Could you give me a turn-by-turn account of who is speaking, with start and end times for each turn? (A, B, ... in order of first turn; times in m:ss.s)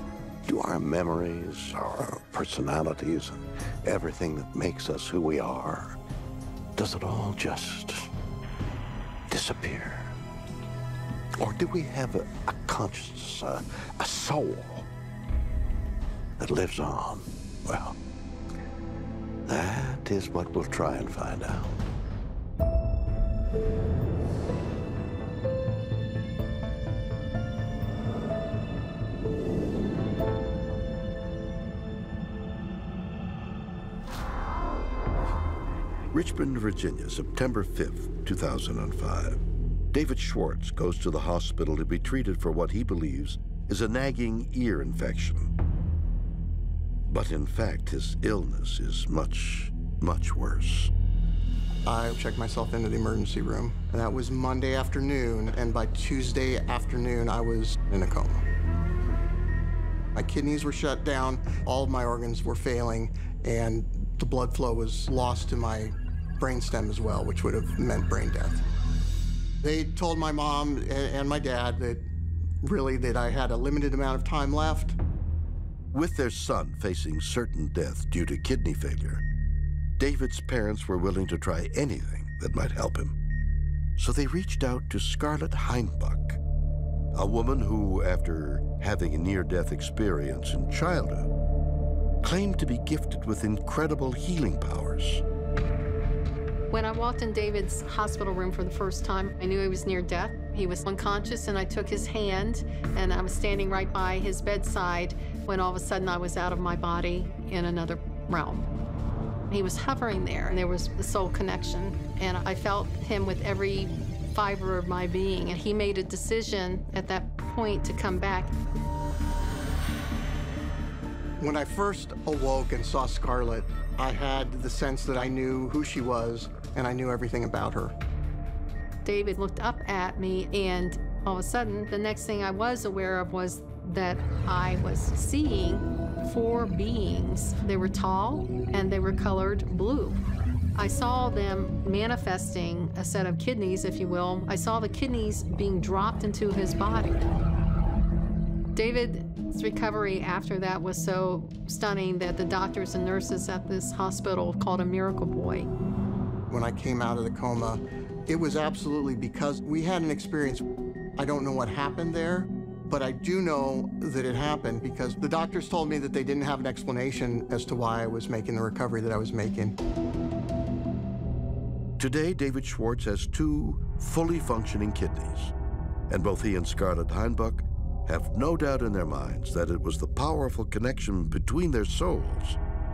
0:00.5-0:06.0 A
0:06.8-0:08.1 A
0:09.3-0:10.0 A
0:11.4-0:14.9 A
0:16.4-0:17.9 A
0:19.5-0:21.7 A
0:36.1-0:39.4 A
0:39.9-0:45.5 A
0:47.1-0:50.9 A
0:51.8-0:58.4 B
1:00.2-1:08.6 B
1:09.6-1:12.1 B
1:12.6-1:15.0 B
1:15.9-1:19.2 A
1:20.0-1:23.2 A
1:24.0-1:26.4 A
1:27.1-1:31.3 A
1:32.2-1:35.2 A
1:36.7-1:48.7 C
1:49.5-1:58.5 C
2:01.4-2:08.0 B
2:09.0-2:20.2 C
2:20.8-2:27.3 C
2:28.7-2:35.7 C
2:36.5-2:40.6 B
2:41.2-2:49.8 B
2:52.0-2:55.5 A
2:56.1-3:02.6 A